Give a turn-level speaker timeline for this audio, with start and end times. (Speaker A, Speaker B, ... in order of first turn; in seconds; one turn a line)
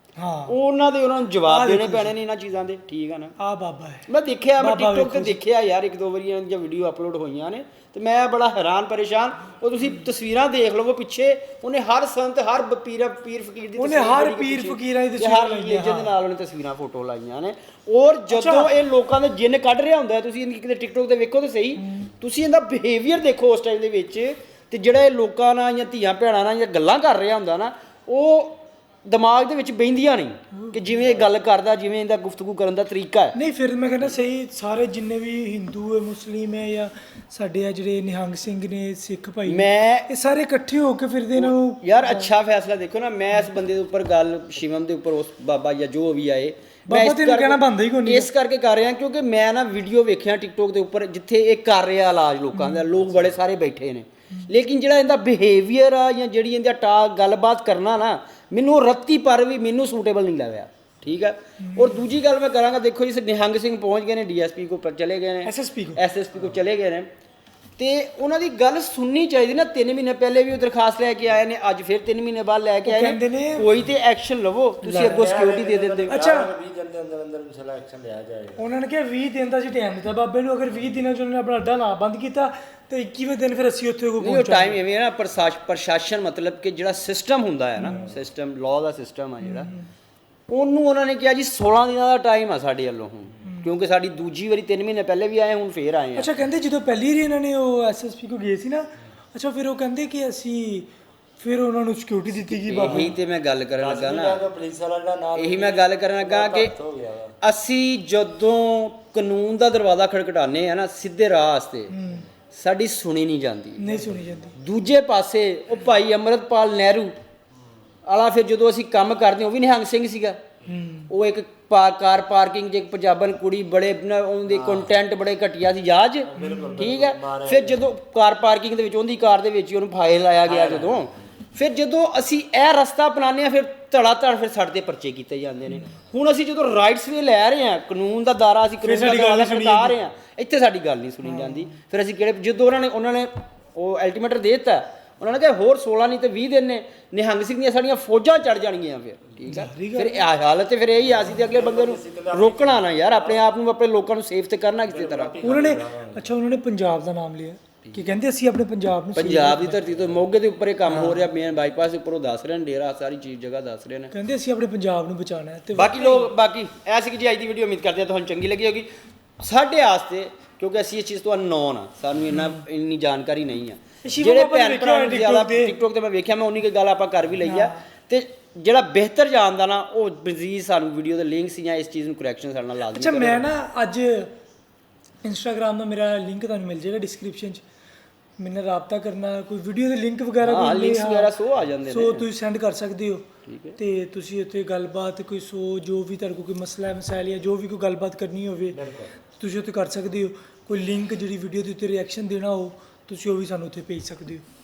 Speaker A: 0.2-0.6
Speaker B: 0.5-3.4
Speaker A: 1.4-2.1
Speaker A: 3.4-5.4
Speaker B: 4.1-33.3
Speaker A: 13.8-16.1
Speaker A: 18.3-18.7
Speaker A: 21.8-22.1
Speaker A: 33.3-42.3
Speaker B: 39.5-40.1
Speaker B: 41.4-67.1
Speaker A: 46.9-48.3
Speaker A: 52.5-52.9
Speaker A: 61.6-61.9
Speaker A: 65.4-66.0
Speaker B: 67.8-76.2
Speaker A: 72.8-73.8
Speaker A: 74.8-75.3
Speaker C: 75.1-78.6
Speaker A: 76.1-76.5
Speaker A: 78.5-84.8
Speaker B: 84.2-89.7
Speaker A: 87.8-88.0
Speaker A: 89.4-89.8
Speaker B: 90.5-96.3
Speaker A: 93.4-93.7
Speaker A: 96.1-103.1
Speaker B: 102.7-104.4
Speaker C: 103.8-107.3
Speaker B: 105.3-106.7
Speaker B: 107.4-111.9
Speaker A: 111.9-112.2
Speaker B: 112.5-113.8
Speaker A: 113.8-114.5
Speaker C: 113.9-114.2
Speaker B: 114.5-117.1
Speaker B: 118.1-120.4
Speaker A: 120.7-121.1
Speaker B: 121.1-155.4
Speaker C: 124.5-124.9
Speaker C: 126.3-127.8
Speaker A: 126.3-126.7
Speaker C: 130.4-131.1
Speaker A: 138.8-139.9
Speaker A: 141.2-141.7
Speaker A: 149.5-150.2
Speaker C: 151.4-153.4
Speaker C: 154.9-156.3
Speaker A: 155.4-159.9
Speaker B: 159.1-164.1
Speaker A: 160.9-161.2
Speaker A: 164.1-166.3
Speaker B: 165.7-183.4
Speaker A: 174.0-175.8
Speaker A: 177.4-177.8
Speaker A: 182.9-184.3
Speaker A: 185.2-187.6
Speaker A: 188.4-191.3
Speaker B: 190.4-192.3
Speaker A: 191.9-193.3
Speaker B: 193.4-193.8
Speaker A: 193.8-204.4
Speaker C: 198.7-199.1